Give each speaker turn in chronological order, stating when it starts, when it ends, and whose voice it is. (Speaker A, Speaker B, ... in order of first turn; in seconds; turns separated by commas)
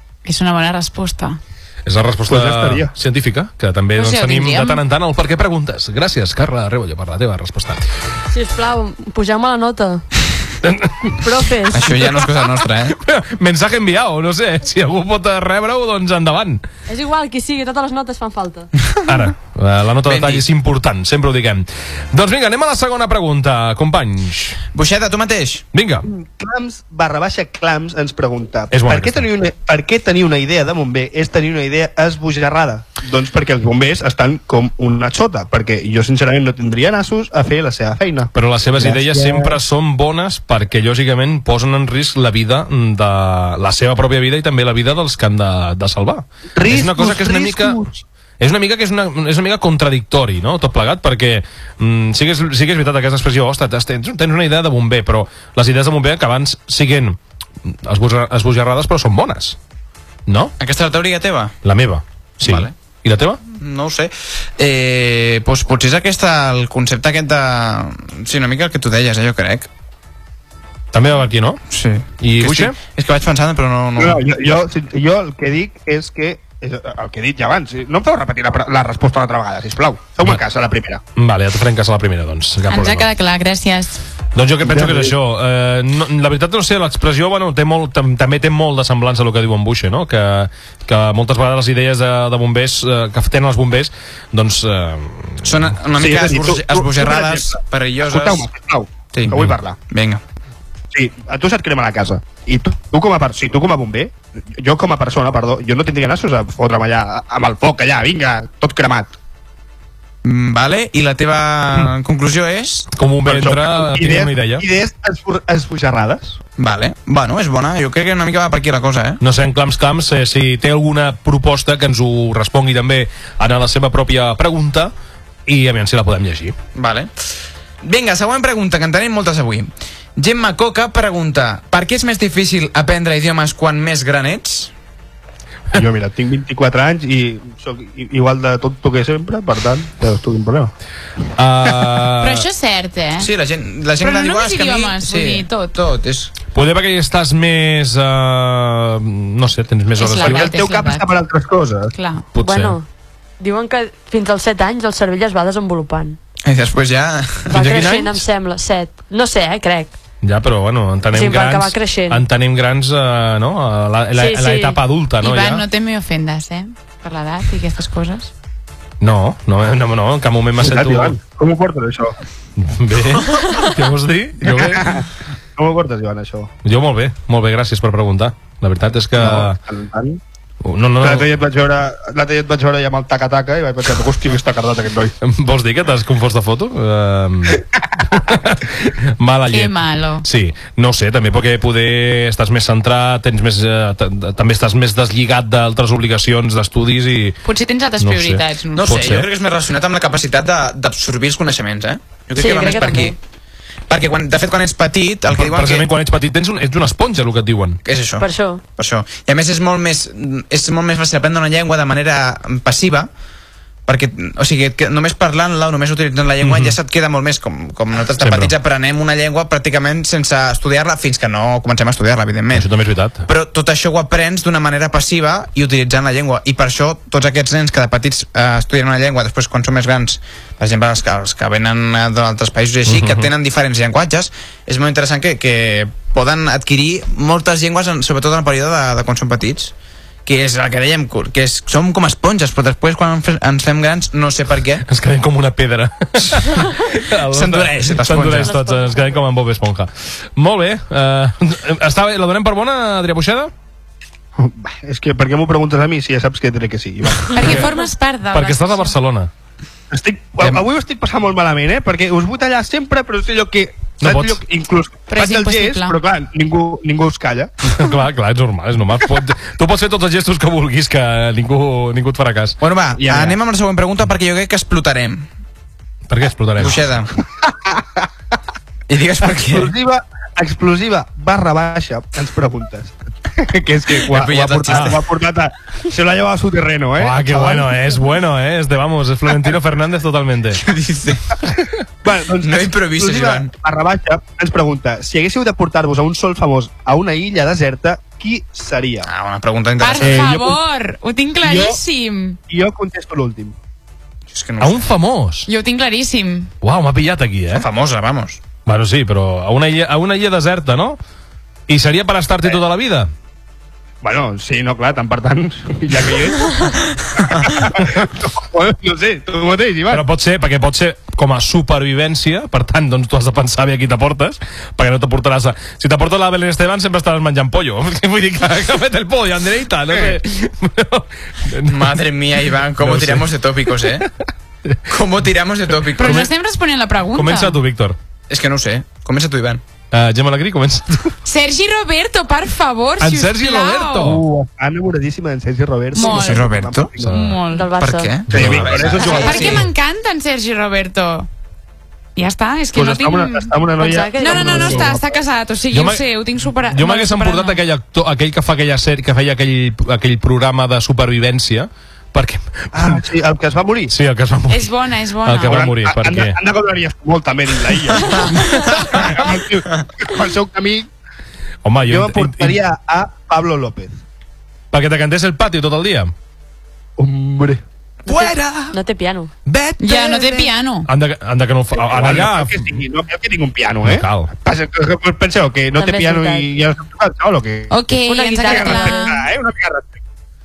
Speaker A: 0.2-1.4, Speaker B: 1.8-7.8, Speaker C: 2.3-2.9, Speaker A: 4.0-4.8, Speaker D: 8.3-10.0, Speaker B: 10.6-11.2, Speaker D: 11.2-11.9, Speaker E: 11.7-13.0, Speaker B: 12.1-16.6, Speaker D: 16.9-18.7, Speaker B: 19.1-24.6, Speaker E: 20.0-20.4, Speaker E: 24.7-25.7, Speaker B: 25.7-26.1, Speaker C: 26.0-39.6, Speaker B: 28.7-29.2, Speaker B: 38.3-47.8, Speaker C: 46.5-48.0, Speaker B: 48.4-59.6, Speaker B: 60.3-60.5, Speaker E: 60.6-61.6, Speaker B: 61.6-63.4, Speaker E: 62.4-62.7, Speaker E: 63.5-69.7, Speaker B: 70.9-71.6, Speaker E: 71.7-74.2, Speaker B: 72.2-72.8, Speaker C: 74.0-81.0, Speaker B: 81.2-83.1, Speaker A: 82.7-84.0, Speaker B: 84.3-95.6, Speaker C: 84.6-85.2, Speaker E: 95.4-98.5, Speaker C: 96.0-99.8, Speaker E: 99.1-100.2, Speaker C: 100.9-109.1, Speaker E: 110.2-112.9, Speaker B: 112.9-114.6, Speaker C: 113.2-116.4, Speaker E: 116.6-119.2, Speaker B: 119.2-124.9, Speaker B: 125.5-126.5, Speaker E: 126.7-127.1, Speaker E: 127.8-134.7, Speaker C: 135.7-140.7, Speaker B: 141.4-142.4, Speaker A: 142.2-143.3, Speaker E: 143.2-146.3, Speaker A: 144.0-145.7, Speaker B: 146.5-150.5, Speaker A: 150.0-151.1, Speaker C: 150.2-151.9, Speaker A: 151.9-152.2, Speaker B: 152.3-152.8, Speaker D: 152.4-152.8, Speaker D: 153.4-156.2, Speaker E: 156.4-157.8, Speaker D: 157.5-159.9, Speaker B: 157.5-158.2, Speaker B: 160.2-165.6, Speaker D: 161.1-162.2, Speaker D: 164.1-164.8, Speaker A: 165.2-168.3, Speaker B: 169.0-171.2, Speaker C: 170.6-172.2, Speaker B: 172.6-175.0, Speaker C: 174.4-176.5, Speaker B: 176.6-179.6, Speaker C: 179.2-180.2, Speaker B: 180.6-181.3, Speaker C: 181.0-185.1, Speaker B: 185.2-197.4, Speaker A: 189.5-190.2, Speaker A: 197.4-199.0, Speaker B: 198.0-199.3, Speaker E: 198.8-203.2, Speaker D: 202.3-203.2, Speaker E: 203.9-205.9, Speaker B: 205.3-207.8, Speaker E: 207.8-213.1, Speaker D: 208.2-208.6, Speaker E: 213.8-222.7, Speaker B: 216.4-216.8, Speaker B: 218.2-218.5, Speaker B: 222.5-223.2, Speaker E: 223.3-239.7, Speaker B: 232.8-233.3, Speaker E: 240.2-244.8, Speaker B: 244.9-253.5, Speaker E: 247.3-248.5, Speaker D: 248.2-249.2, Speaker C: 254.4-257.6, Speaker A: 257.3-258.9, Speaker B: 257.4-257.7, Speaker B: 258.3-259.3, Speaker C: 259.9-267.5, Speaker B: 264.0-264.4, Speaker A: 265.1-266.0, Speaker B: 267.7-272.6, Speaker E: 272.6-275.3, Speaker C: 273.0-273.4, Speaker B: 276.1-276.9, Speaker E: 276.6-277.1, Speaker C: 277.4-278.1, Speaker E: 278.9-279.7, Speaker C: 279.2-288.0, Speaker E: 284.0-285.0, Speaker B: 284.7-284.9, Speaker B: 287.0-290.6, Speaker E: 290.6-291.4, Speaker C: 292.0-299.1, Speaker E: 292.4-293.5, Speaker E: 299.0-300.3, Speaker A: 299.8-302.4, Speaker C: 300.0-300.6, Speaker C: 301.4-301.8, Speaker C: 302.5-303.6, Speaker E: 304.3-304.9, Speaker B: 304.6-305.5, Speaker A: 305.5-306.5, Speaker B: 306.6-307.7, Speaker E: 307.5-308.4, Speaker B: 308.6-311.0, Speaker B: 311.7-313.1, Speaker C: 314.0-320.0, Speaker B: 319.9-332.0, Speaker E: 331.6-334.1, Speaker B: 332.8-334.0, Speaker E: 334.9-336.3, Speaker A: 336.0-337.6, Speaker B: 336.0-336.3, Speaker B: 337.1-338.0, Speaker E: 338.3-339.6, Speaker B: 339.9-341.1, Speaker A: 341.2-344.1, Speaker B: 343.0-344.2, Speaker C: 344.0-347.2, Speaker A: 345.9-346.5, Speaker E: 346.0-346.9, Speaker B: 347.0-347.4, Speaker A: 347.0-347.7, Speaker D: 347.5-348.1, Speaker E: 347.8-349.7, Speaker B: 348.3-349.6, Speaker C: 348.3-349.7, Speaker D: 349.0-349.4, Speaker A: 349.0-351.3, Speaker A: 352.1-353.5, Speaker C: 352.7-355.1, Speaker D: 353.8-354.9, Speaker A: 354.2-357.6, Speaker B: 355.7-356.0, Speaker B: 356.7-363.0, Speaker C: 362.7-363.9, Speaker B: 363.9-364.7, Speaker A: 364.5-365.6, Speaker B: 365.2-366.4, Speaker C: 365.4-370.9, Speaker B: 371.6-372.6, Speaker C: 371.9-374.0, Speaker B: 374.7-376.1, Speaker C: 377.0-377.6, Speaker E: 378.0-378.8, Speaker D: 378.1-379.3, Speaker B: 379.4-382.8, Speaker A: 379.8-380.9, Speaker C: 381.7-387.8, Speaker B: 383.8-384.3, Speaker D: 385.7-386.5, Speaker A: 387.7-389.2, Speaker D: 388.0-389.1, Speaker C: 388.4-390.0